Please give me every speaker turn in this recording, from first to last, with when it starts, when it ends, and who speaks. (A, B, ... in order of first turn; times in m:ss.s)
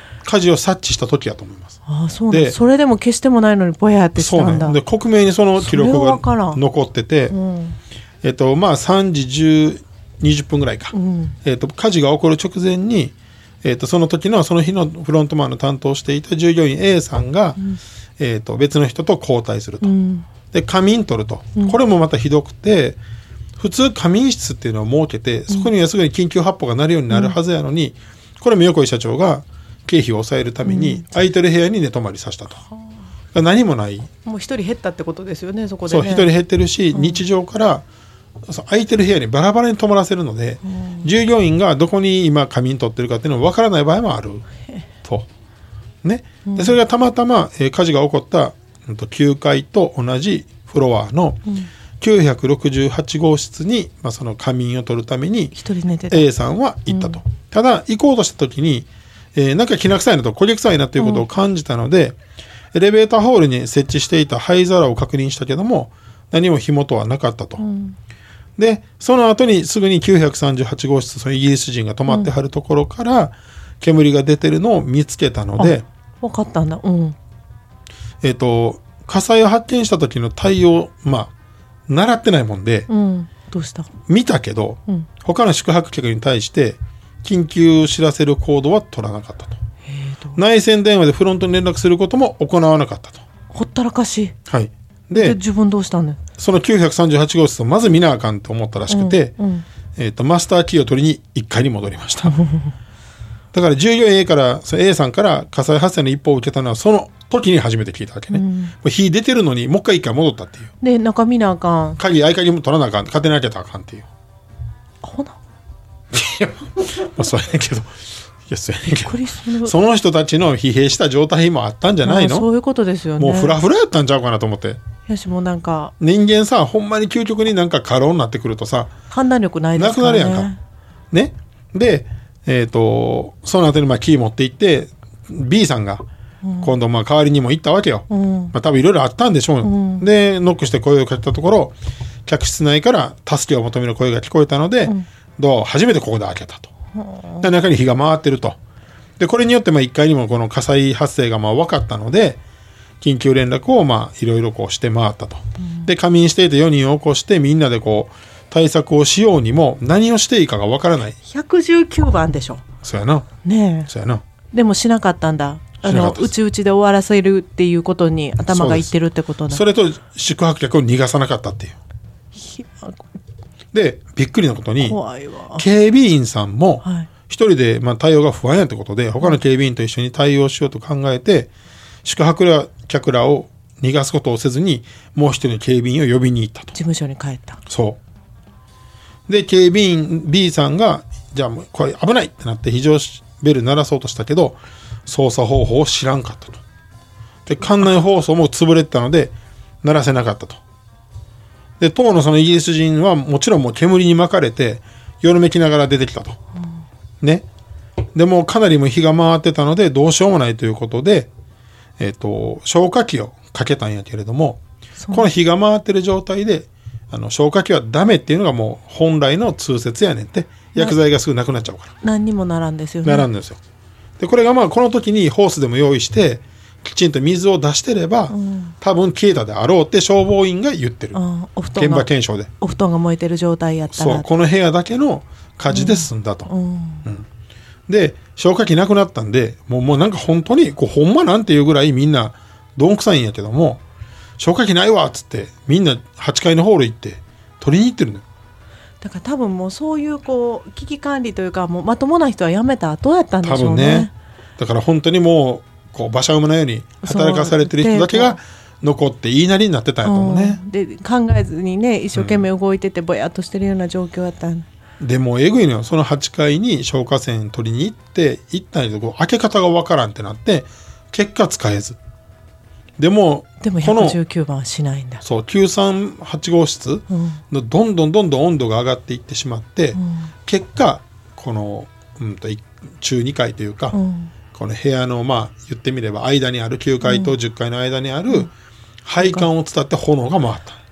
0:00.2-0:01.8 A
0:01.9-0:04.8 B
0:02.3-0:02.6 A
0:04.2-0:07.4 A
0:05.6-0:06.6 B
0:07.3-0:07.8 B
0:08.2-0:17.6 A
0:10.9-0:11.4 B
0:18.2-0:19.9 A
0:19.8-0:20.3 B
0:20.5-0:23.0 A
0:23.6-0:32.6 A
0:27.1-0:27.4 B
0:30.6-0:31.1 B
0:33.3-0:34.1 A
0:34.2-0:36.3 B
0:35.9-0:37.8 A
0:36.9-0:37.2 B
0:38.4-0:44.4 A
0:40.7-0:41.1 B
0:46.0-0:51.4 A
0:46.5-0:46.8 B
0:52.0-0:55.6 A
0:55.6-0:56.3 B
0:56.1-1:02.2 A
0:56.9-0:57.2 B
1:01.0-1:01.2 B
1:02.7-1:07.6 A
1:07.6-1:08.0 B
1:08.6-1:15.8 A
1:15.6-1:17.2 B
1:18.2-1:21.3 A
1:21.9-1:22.9 A
1:22.9-1:23.9 B
1:24.1-1:29.6 A
1:29.8-1:30.4 B
1:30.4-1:33.2 A
1:33.5-1:34.4 B
1:34.5-1:35.4 A
1:35.1-1:36.2 B
1:36.4-1:39.3 A
1:38.9-1:39.7 B
1:40.0-1:42.4 A
1:42.2-1:42.7 B
1:43.5-1:50.7 A
1:48.3-1:48.8 B
1:50.8-1:52.0 B
1:52.0-1:54.1 A
1:55.0-1:55.4 B
1:56.1-2:02.5 A
1:58.9-1:59.7 B
2:02.0-2:03.6 B
2:03.2-2:04.8 A
2:05.1-2:05.9 B
2:06.0-2:08.9 A
2:09.1-2:10.6 B
2:09.8-2:10.5 A
2:11.1-2:16.0 A
2:16.4-2:16.7 B
2:16.6-2:21.8 A
2:18.1-2:18.5 B
2:19.6-2:20.0 B
2:22.3-2:26.7 A
2:26.9-2:27.5 B
2:27.4-2:28.6 A
2:29.2-2:32.4 A
2:33.0-2:41.2 A
2:35.6-2:35.9 B
2:41.2-2:42.6 B
2:42.8-2:43.3 A
2:43.4-2:43.9 B
2:43.9-2:44.2 A
2:44.5-2:49.6 B
2:45.8-2:46.3 A
2:48.5-2:48.9 A
2:49.5-2:51.8 A
2:52.4-2:53.0 B
2:53.7-2:55.0 A
2:54.8-2:55.7 B
2:55.6-3:01.5 A
2:56.8-2:57.1 B
3:02.0-3:06.7 A
3:06.7-3:07.6 B
3:07.7-3:08.0 A
3:09.3-3:16.6 A
3:17.5-3:20.6 A
3:21.8-3:26.4 A
3:28.1-3:31.3 A
3:32.0-3:34.6 A
3:35.0-3:35.3 B
3:35.1-3:41.9 A
3:42.0-3:43.3 B
3:43.0-3:43.6 A
3:44.2-3:51.2 A
3:48.3-3:48.7 B
3:51.1-3:52.1 B
3:51.8-3:52.5 A
3:52.6-3:54.3 B
3:53.9-3:56.5 A
3:55.7-3:57.1 B
3:57.9-4:03.8 A
4:04.4-4:08.2 A
4:09.0-4:14.1 B
4:13.4-4:20.6 A
4:17.0-4:18.4 B
4:20.0-4:24.7 B
4:22.2-4:22.5 A
4:25.0-4:32.0 A
4:33.0-4:34.2 A
4:33.6-4:35.2 B
4:35.2-4:44.0 A
4:37.1-4:37.4 B
4:40.0-4:40.3 B
4:43.9-4:44.3 B
4:44.5-4:48.5 A
4:47.0-4:47.4 B
4:49.0-4:50.8 A
4:49.2-4:49.5 B